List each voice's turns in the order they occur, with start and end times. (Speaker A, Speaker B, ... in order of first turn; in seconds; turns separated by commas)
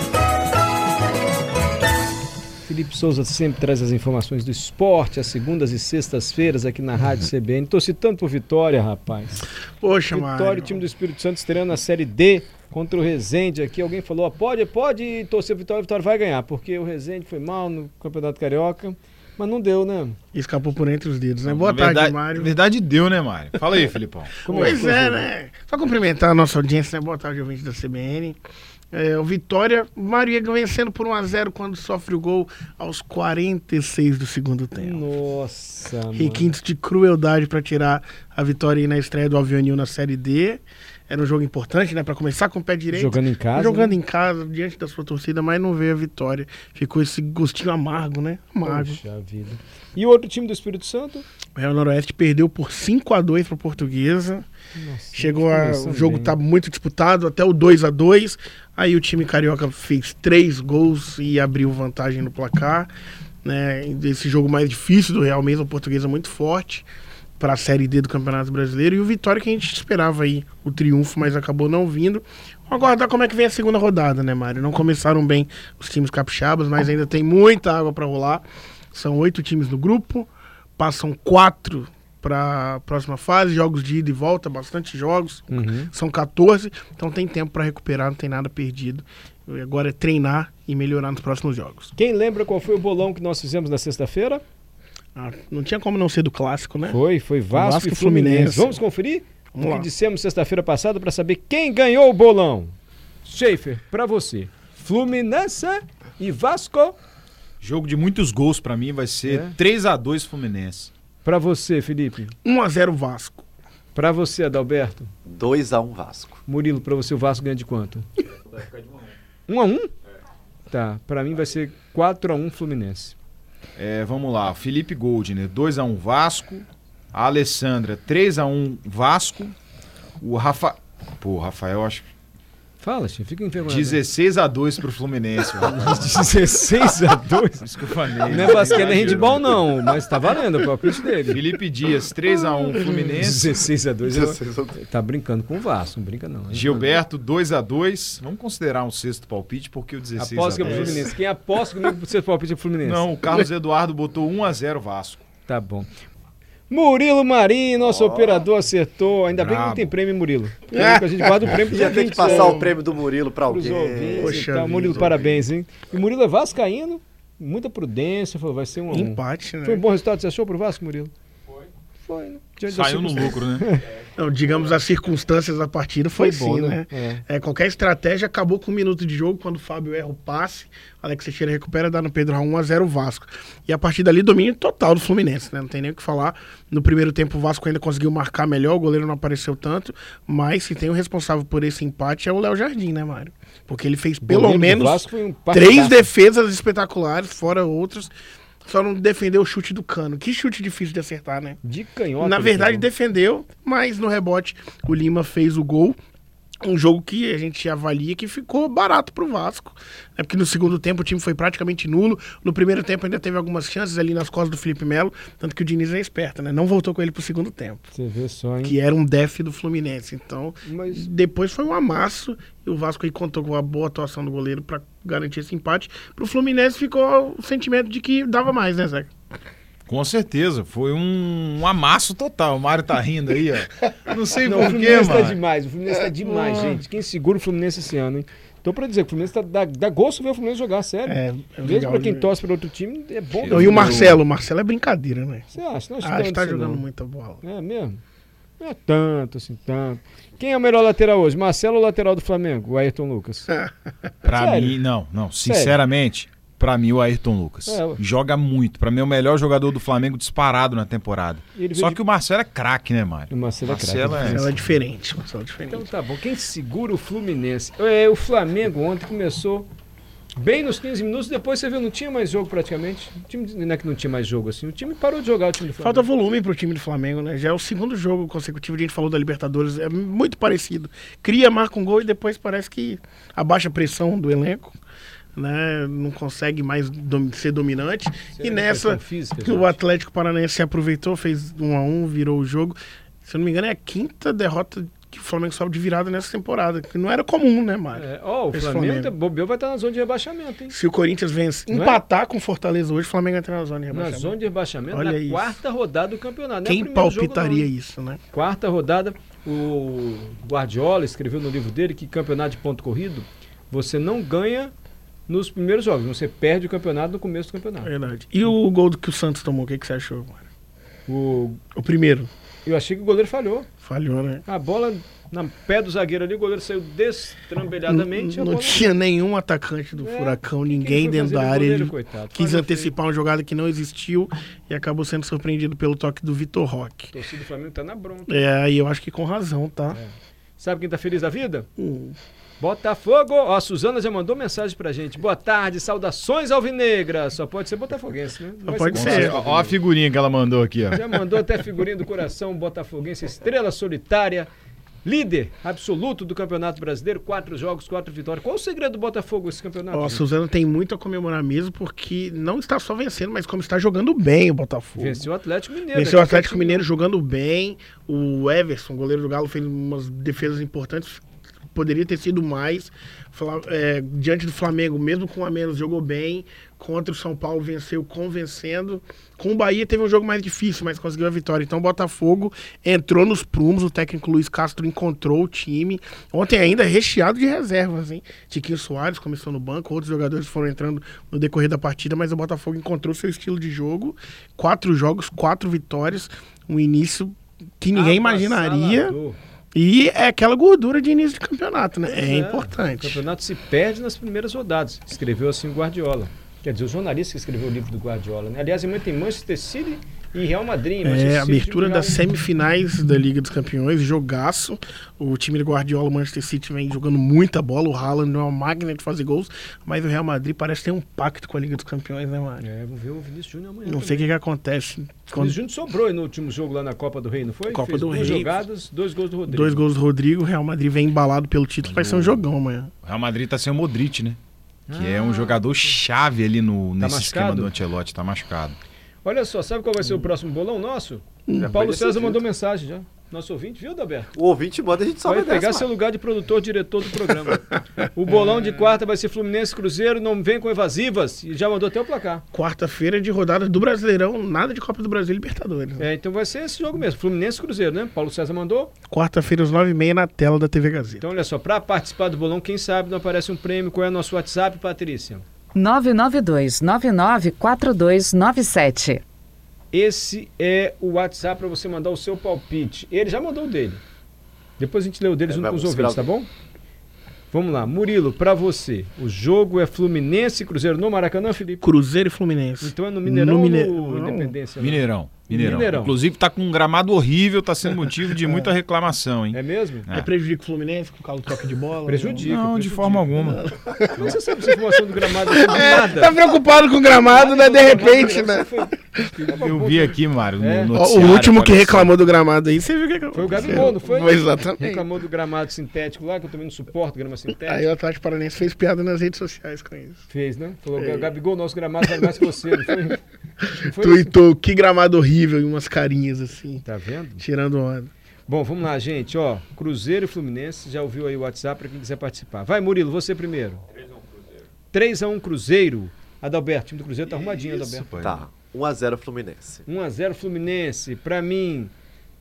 Speaker A: 2.6-9.4, Speaker B: 9.8-10.9, Speaker A: 10.1-20.2, Speaker B: 20.3-22.5, Speaker C: 21.4-24.8, Speaker B: 24.4-28.4, Speaker A: 24.4-25.3, Speaker B: 28.9-35.0, Speaker A: 34.8-36.5, Speaker B: 36.1-49.0, Speaker A: 42.9-44.0, Speaker A: 48.6-51.2, Speaker B: 51.5-54.5, Speaker A: 54.8-56.4, Speaker B: 55.1-62.9, Speaker B: 63.4-66.8, Speaker B: 67.4-91.9, Speaker A: 85.5-85.9, Speaker A: 92.0-94.4, Speaker B: 95.1-97.0, Speaker A: 96.9-102.7, Speaker B: 97.5-98.8, Speaker B: 99.5-99.9, Speaker A: 103.2-107.0, Speaker C: 107.6-110.9, Speaker A: 109.2-109.5, Speaker A: 111.2-112.3, Speaker B: 112.4-113.4, Speaker A: 113.9-115.1, Speaker D: 115.2-116.4, Speaker A: 116.5-118.0, Speaker A: 119.5-119.9, Speaker A: 120.7-123.1, Speaker C: 123.8-129.5, Speaker C: 130.2-132.1, Speaker A: 132.8-134.0, Speaker C: 133.6-136.2, Speaker A: 135.6-137.7, Speaker C: 137.6-139.9, Speaker A: 138.2-141.4, Speaker D: 138.6-139.4, Speaker C: 141.3-143.7, Speaker A: 143.2-147.0, Speaker D: 144.0-144.8, Speaker C: 146.5-151.1, Speaker A: 150.2-153.1, Speaker B: 150.6-151.1, Speaker C: 152.8-155.2, Speaker A: 155.4-155.9, Speaker A: 156.7-162.7, Speaker D: 157.8-158.4, Speaker C: 159.3-159.9, Speaker B: 160.7-161.6, Speaker D: 161.6-165.4, Speaker B: 162.2-162.6, Speaker A: 163.5-171.1, Speaker B: 164.1-165.2, Speaker B: 168.9-169.8, Speaker A: 172.0-173.8, Speaker C: 172.7-173.7, Speaker B: 174.2-198.1, Speaker A: 176.2-177.2, Speaker A: 194.2-196.1, Speaker B: 198.6-201.6, Speaker A: 201.6-202.9, Speaker B: 202.2-205.9, Speaker B: 206.6-217.9, Speaker A: 217.9-218.8, Speaker B: 218.6-229.1, Speaker A: 220.6-221.1, Speaker C: 229.9-235.4, Speaker A: 234.4-244.2, Speaker C: 236.3-236.8, Speaker B: 241.1-242.4, Speaker C: 243.4-244.2, Speaker B: 243.5-245.5, Speaker A: 245.5-246.8, Speaker B: 246.0-247.4, Speaker A: 247.4-248.0, Speaker A: 248.6-253.6, Speaker C: 254.2-264.6, Speaker A: 254.2-254.8, Speaker A: 255.4-255.8, Speaker A: 257.6-258.0, Speaker A: 261.5-262.0, Speaker A: 263.3-264.5, Speaker B: 264.2-265.9, Speaker A: 265.7-269.7, Speaker A: 270.4-276.1, Speaker B: 275.8-284.8, Speaker B: 285.3-299.1, Speaker A: 288.3-289.8, Speaker A: 297.9-300.7, Speaker B: 300.7-304.4, Speaker A: 301.7-302.0, Speaker A: 303.9-307.7, Speaker B: 304.9-305.6, Speaker B: 306.6-308.2, Speaker A: 308.3-314.7, Speaker A: 315.3-317.9, Speaker B: 317.8-320.4, Speaker A: 321.1-321.6, Speaker B: 321.7-322.3, Speaker A: 322.6-323.7, Speaker B: 323.8-324.4, Speaker A: 324.4-328.9, Speaker B: 327.9-337.1, Speaker A: 330.0-332.9, Speaker A: 337.1-338.4, Speaker B: 338.3-340.0, Speaker A: 339.9-341.7, Speaker B: 341.8-342.1, Speaker A: 342.6-349.8, Speaker B: 348.6-349.4, Speaker C: 348.9-351.1, Speaker A: 350.9-354.5, Speaker A: 355.0-360.2, Speaker B: 359.9-365.3, Speaker A: 365.0-366.8, Speaker B: 365.9-371.2, Speaker B: 371.7-399.1, Speaker A: 397.9-399.4, Speaker B: 399.7-403.2, Speaker A: 402.1-412.2, Speaker B: 411.0-422.6, Speaker A: 422.6-424.3, Speaker B: 423.8-425.6, Speaker A: 425.3-429.8, Speaker B: 427.7-428.7, Speaker B: 429.5-432.9, Speaker C: 431.8-432.4, Speaker C: 433.0-434.4, Speaker A: 434.9-435.7, Speaker C: 434.9-438.8, Speaker A: 437.0-437.7, Speaker A: 439.2-444.3, Speaker B: 441.5-442.2, Speaker D: 441.6-442.4, Speaker D: 444.3-445.9, Speaker A: 445.2-452.4, Speaker B: 448.3-448.8, Speaker B: 452.5-456.1, Speaker A: 456.0-458.9, Speaker B: 459.1-461.2, Speaker A: 461.2-465.4, Speaker E: 465.7-469.2, Speaker A: 469.9-474.0, Speaker A: 474.8-476.5, Speaker D: 475.5-476.3, Speaker A: 477.5-481.8, Speaker B: 481.8-484.6, Speaker A: 482.8-486.1, Speaker C: 484.8-490.3, Speaker B: 487.9-488.7, Speaker A: 489.5-490.1, Speaker B: 490.1-492.5, Speaker A: 492.1-493.6, Speaker C: 492.4-493.6, Speaker B: 493.5-499.6, Speaker A: 494.1-496.3, Speaker A: 497.2-500.9, Speaker C: 499.5-502.2, Speaker B: 500.9-505.1, Speaker A: 503.3-507.9, Speaker B: 507.5-510.2, Speaker A: 510.3-513.2, Speaker B: 510.9-511.3, Speaker B: 512.0-512.9, Speaker B: 513.6-516.8, Speaker A: 513.9-514.3, Speaker A: 516.8-517.4, Speaker B: 517.4-518.1, Speaker A: 518.5-523.8, Speaker A: 524.9-528.1, Speaker C: 527.3-528.5, Speaker D: 528.2-529.8, Speaker A: 529.9-531.9